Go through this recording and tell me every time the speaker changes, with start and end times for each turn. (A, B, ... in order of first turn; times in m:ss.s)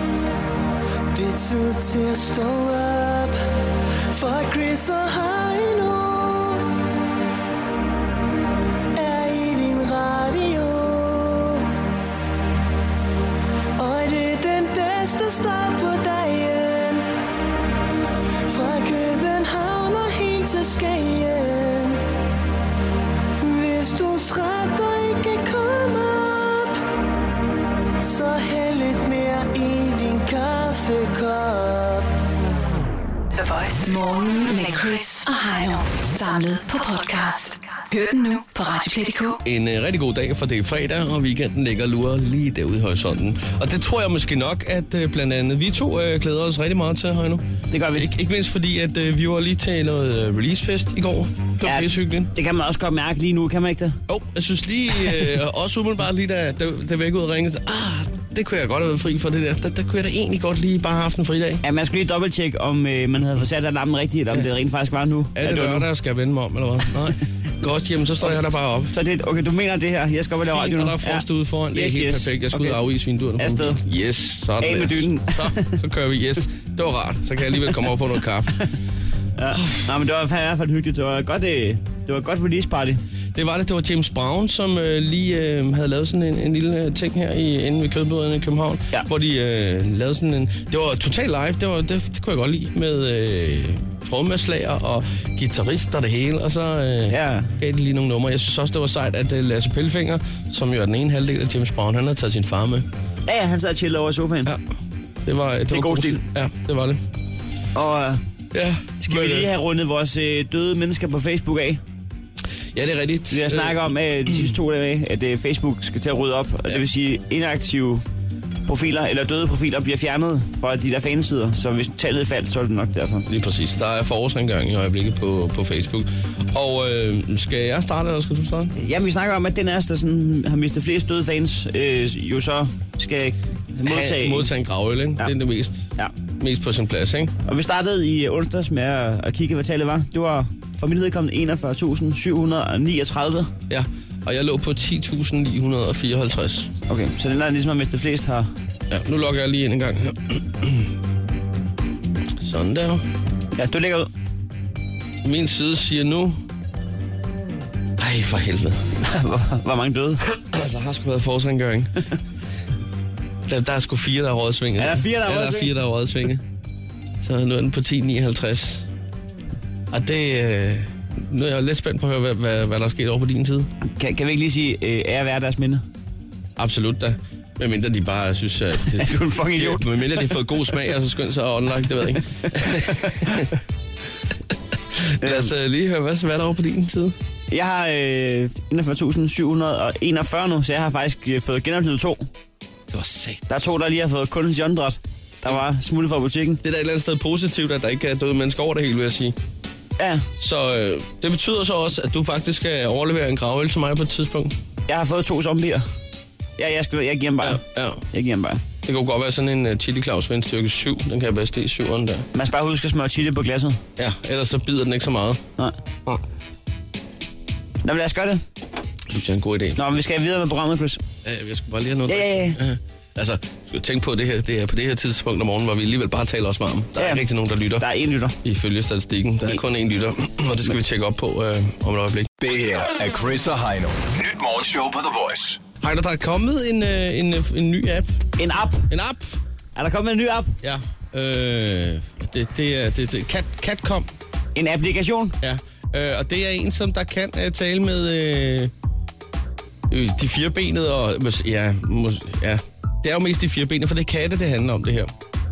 0:01.1-0:03.4 A
0:04.1-0:06.7 A
0:09.0-0:11.6 A
0:13.8-0:17.1 A
0:18.5-0:22.0 A
0:23.4-0:26.8 A
0:28.0-0:32.1 A
0:33.4-0:39.4 B
0:39.4-0:52.3 C
0:47.7-0:48.1 D
0:51.6-0:54.0 D
0:54.1-1:01.6 C
1:01.6-1:05.9 D
1:05.4-1:08.9 C
1:08.2-1:12.8 D
1:10.4-1:18.6 C
1:13.4-1:13.8 D
1:14.6-1:15.8 D
1:19.4-1:23.0 D
1:19.6-1:19.8 C
1:23.4-1:42.9 C
1:37.1-1:37.5 D
1:43.3-1:44.5 D
1:45.2-1:47.0 C
1:45.7-1:46.2 D
1:47.8-1:48.2 D
1:48.5-1:49.5 C
1:49.0-1:51.8 D
1:52.7-1:54.5 C
1:53.3-1:58.0 D
1:58.7-2:03.3 D
2:03.3-2:08.7 C
2:08.8-2:14.5 D
2:13.9-2:17.3 C
2:17.5-2:23.5 D
2:23.7-2:26.7 C
2:26.9-2:28.5 D
2:28.9-2:30.9 C
2:32.4-2:33.0 C
2:33.6-2:34.1 D
2:35.2-2:36.4 C
2:38.0-2:38.8 C
2:39.0-2:40.2 D
2:40.5-2:42.0 C
2:43.5-2:46.4 C
2:44.8-2:45.7 D
2:47.2-2:48.9 C
2:49.9-2:53.7 C
2:53.9-2:55.8 D
2:56.6-3:03.5 C
2:58.9-3:00.4 D
3:02.4-3:03.4 D
3:05.0-3:07.2 C
3:05.2-3:05.5 D
3:07.5-3:12.3 D
3:12.9-3:13.7 C
3:13.5-3:16.6 D
3:16.6-3:19.4 C
3:20.0-3:20.3 D
3:20.4-3:24.5 C
3:24.9-3:25.9 D
3:26.6-3:28.6 D
3:27.4-3:28.0 C
3:28.8-3:32.3 C
3:32.4-3:33.8 D
3:34.0-3:35.4 C
3:37.8-3:38.4 D
3:39.1-3:39.8 C
3:39.8-3:41.0 D
3:41.2-3:47.8 C
3:42.1-3:42.6 D
3:47.0-3:48.4 D
3:48.4-3:52.3 C
3:52.4-3:55.6 E
3:55.8-3:58.2 C
3:58.4-3:58.9 D
3:58.9-3:59.4 C
3:59.8-4:00.6 D
4:00.6-4:04.1 C
4:04.6-4:05.4 D
4:05.4-4:08.7 C
4:09.9-4:15.1 C